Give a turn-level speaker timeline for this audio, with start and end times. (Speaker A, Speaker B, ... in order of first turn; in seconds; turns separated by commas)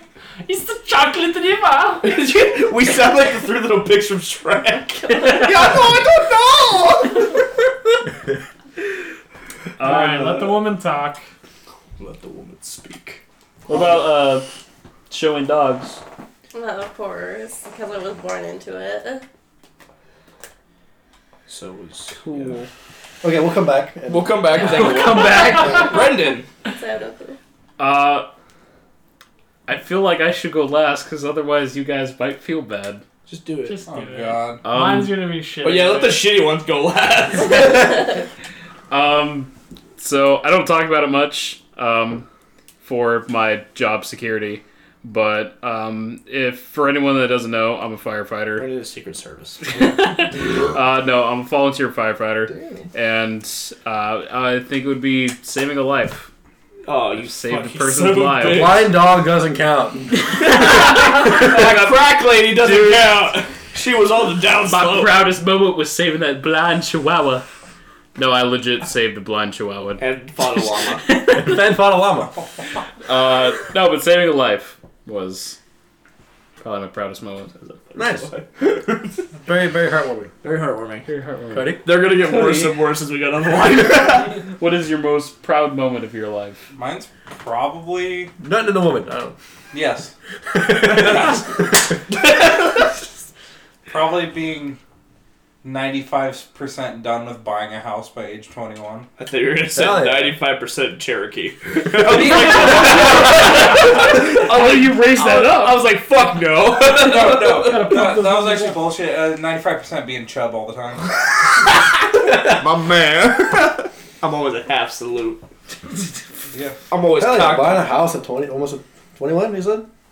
Speaker A: 0.4-2.2, Speaker B: 2.0-7.4, Speaker C: 9.8-10.5, Speaker A: 9.8-11.2, Speaker B: 12.0-13.2, Speaker C: 13.7-14.5, Speaker C: 15.1-16.0, Speaker D: 16.5-19.2, Speaker B: 21.5-22.6, Speaker C: 22.2-22.7, Speaker E: 23.2-25.1, Speaker B: 24.1-26.5, Speaker C: 24.6-25.9, Speaker D: 25.5-25.9, Speaker D: 26.6-27.4, Speaker C: 27.8-28.3, Speaker C: 29.7-33.0, Speaker B: 33.3-33.8, Speaker A: 33.6-36.3, Speaker F: 33.9-34.7, Speaker C: 34.6-35.2, Speaker B: 35.6-38.0, Speaker C: 37.5-38.0, Speaker C: 38.9-42.3, Speaker C: 42.8-48.7, Speaker B: 48.6-49.7, Speaker C: 49.7-56.3, Speaker B: 52.5-52.9, Speaker B: 56.9-58.9, Speaker C: 57.1-58.9, Speaker A: 57.6-58.2, Speaker E: 58.4-61.5, Speaker B: 60.4-65.3, Speaker C: 62.6-63.4, Speaker C: 64.7-67.5, Speaker C: 68.2-70.0, Speaker B: 70.0-71.1, Speaker C: 71.1-71.6, Speaker E: 71.3-72.3, Speaker C: 73.0-75.6, Speaker C: 76.6-77.7, Speaker B: 77.9-79.2, Speaker E: 78.0-78.3, Speaker E: 79.5-80.3, Speaker B: 80.4-81.1, Speaker C: 81.1-82.9, Speaker E: 81.5-81.8, Speaker B: 81.8-84.4, Speaker C: 84.3-86.6, Speaker F: 86.7-88.3, Speaker E: 88.4-89.3, Speaker F: 89.7-90.1, Speaker E: 90.5-91.4, Speaker F: 90.9-91.5, Speaker F: 93.9-94.8, Speaker F: 95.6-99.1, Speaker B: 99.2-108.1, Speaker E: 99.7-100.3, Speaker F: 102.0-103.5, Speaker C: 103.9-105.8, Speaker F: 106.9-111.2, Speaker A: 107.7-108.8, Speaker B: 111.7-115.5, Speaker F: 116.5-116.8, Speaker B: 116.9-117.9, Speaker E: 117.2-119.9